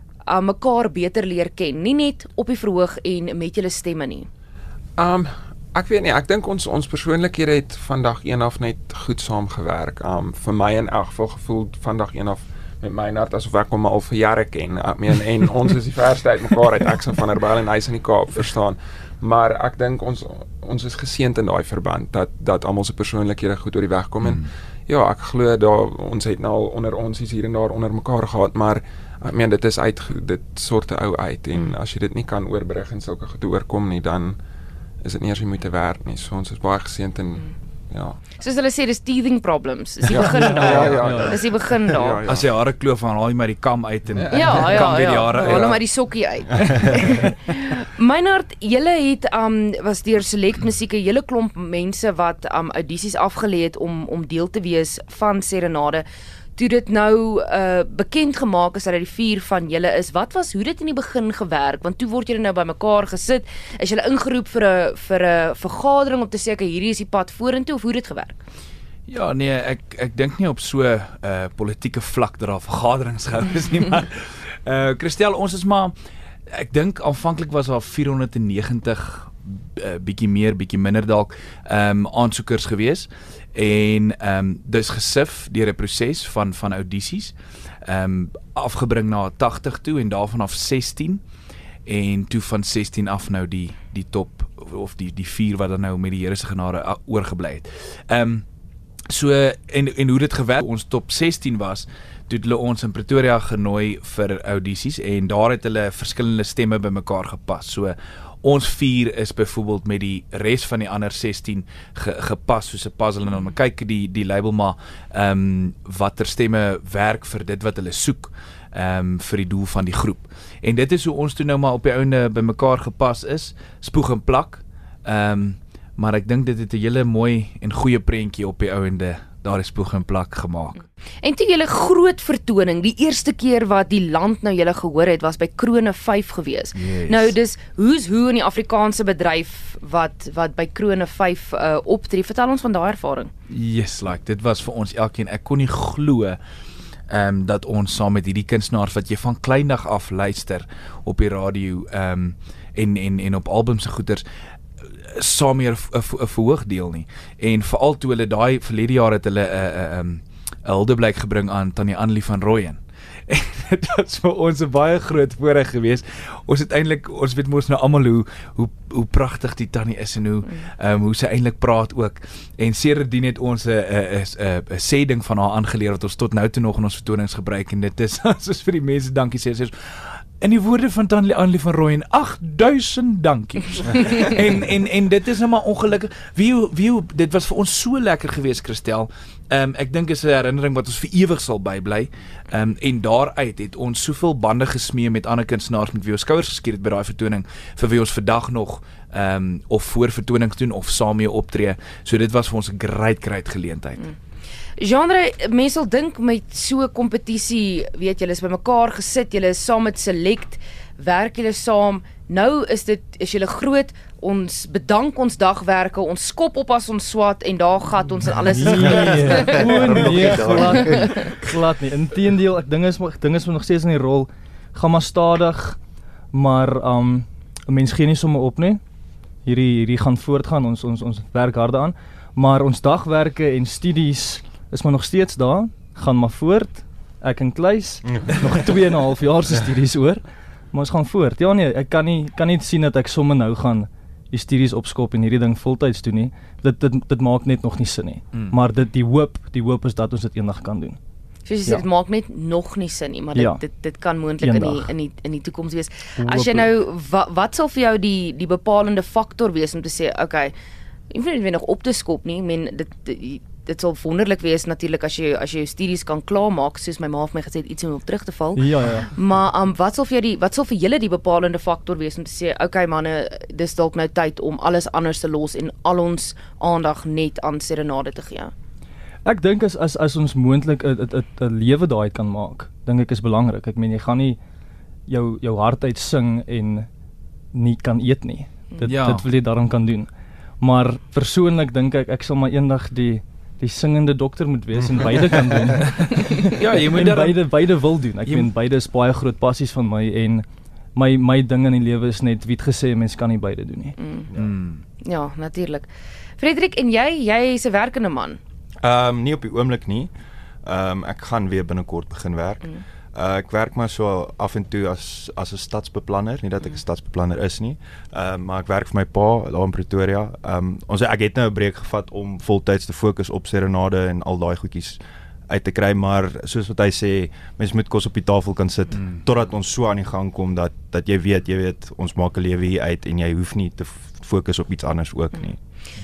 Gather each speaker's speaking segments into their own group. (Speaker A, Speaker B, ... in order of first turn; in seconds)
Speaker A: 0.3-4.3, 38.4-42.2, 44.3-56.0, 56.5-68.4, 131.2-143.3, 204.8-221.1, 251.4-260.5, 261.1-278.5, 304.0-304.3, 305.0-308.4
Speaker B: 5.0-34.4, 35.0-38.2, 40.1-42.5, 44.1-45.8
Speaker C: 40.2-41.3, 218.5-225.8, 226.3-228.8, 229.4-251.0, 253.3-253.6, 254.4-254.9, 256.1-256.7, 268.5-269.1, 279.2-284.4, 285.1-286.9, 287.5-290.1, 290.6-300.4, 300.9-303.9
Speaker D: 42.2-45.8, 69.1-75.9, 76.5-87.3, 87.8-91.2, 91.8-98.4, 99.1-130.8, 136.7-137.3, 143.5-146.4, 147.1-154.2, 155.0-204.1, 288.9-289.2, 296.6-297.5, 304.3-304.8
Speaker E: 218.9-221.1, 308.8-310.1, 310.6-335.6